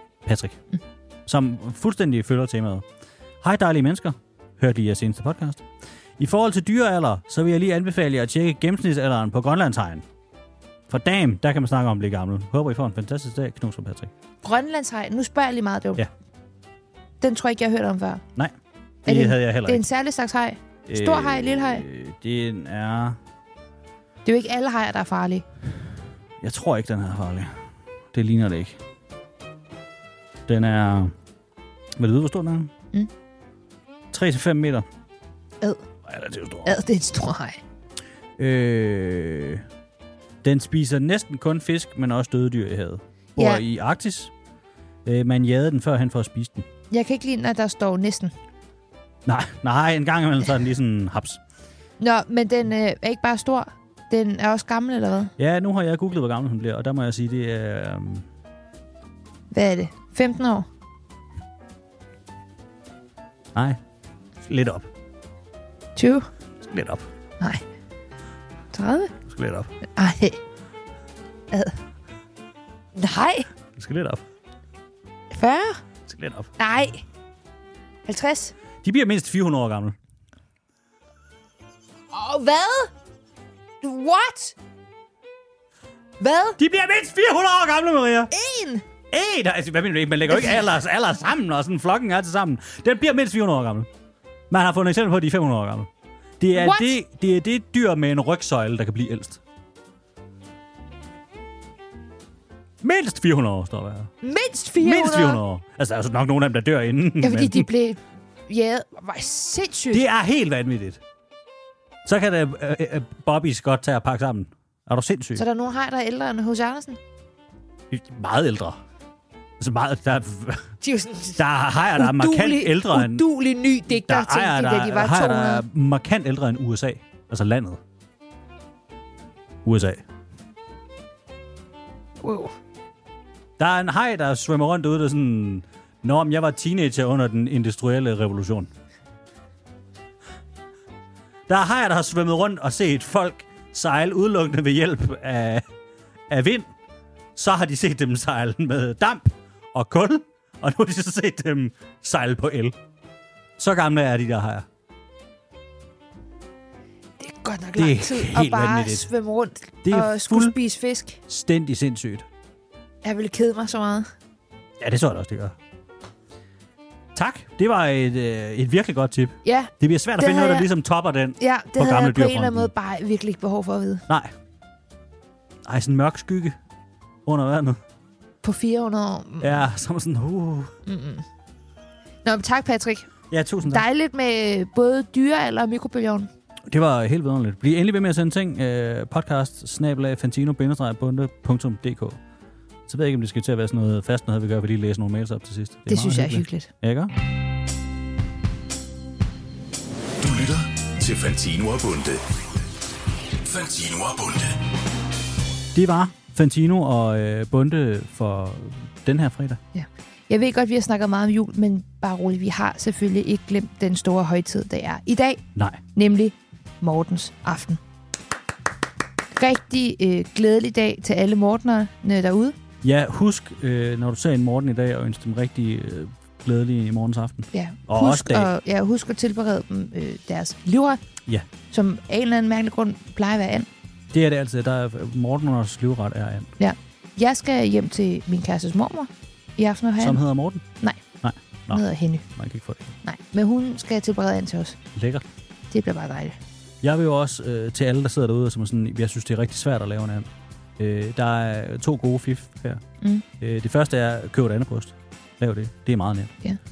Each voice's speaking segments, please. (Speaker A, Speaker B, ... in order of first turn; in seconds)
Speaker A: 0.2-0.6, 1.3-2.8, 3.4-5.6, 6.2-10.0, 10.9-14.1, 19.1-19.8, 20.9-23.2, 26.4-27.5, 28.1-28.8, 30.5-31.1, 32.0-32.7, 34.1-34.9, 36.1-36.8, 38.4-39.6, 40.4-44.3, 45.1-46.7, 49.3-51.4, 55.4-58.2, 64.5-64.9, 66.6-67.1, 69.3-69.7, 73.8-74.2, 76.1-76.5, 78.8-80.0, 86.6-88.3, 89.1-93.9, 94.5-95.9, 96.4-99.4, 102.8-104.1, 104.8-107.7, 109.9-111.0, 112.0-115.4, 117.9-118.8, 119.6-120.7, 121.4-123.2, 123.9-127.8, 129.6-130.0, 133.6-138.7, 141.5-145.6, 146.3-146.7, 147.4-152.8, 153.6-154.6, 157.8-159.1, 159.8-160.6, 161.3-162.3, 164.8-165.6, 167.1-172.7, 175.7-176.6, 177.3-177.8, 179.4-180.7, 183.3-183.9, 186.7-192.2, 192.9-197.1, 205.7-209.6, 222.8-228.5, 234.1-236.5, 240.0-240.6, 241.2-242.9, 245.0-245.2, 246.8-250.3, 250.8-252.8, 253.4-256.3
Speaker B: 14.4-16.0, 17.2-18.2, 19.1-21.9, 24.2-25.4, 36.6-37.6, 43.4-43.6, 46.9-48.3, 52.0-55.3, 59.5-60.7, 66.0-66.3, 68.7-69.1, 70.0-70.4, 73.0-73.5, 75.3-75.8, 76.6-77.0, 78.1-78.5, 82.1-82.9, 83.8-84.5, 86.2-86.6, 88.3-88.8, 90.3-90.6, 96.5-97.0, 104.2-105.4, 107.2-110.0, 115.4-117.0, 120.8-121.4, 121.9-125.6, 132.2-132.5, 157.2-161.2, 163.0-164.1, 169.4-170.7, 171.4-174.1, 178.4-179.7, 180.9-181.2, 182.2-183.1, 183.7-186.3, 195.9-196.7, 209.8-215.4, 215.9-217.8, 219.3-222.6, 227.5-231.0, 231.7-233.7, 236.6-240.2, 241.7-242.2, 243.0-244.8, 245.7-246.4
Speaker C: 200.2-202.2, 203.4-204.7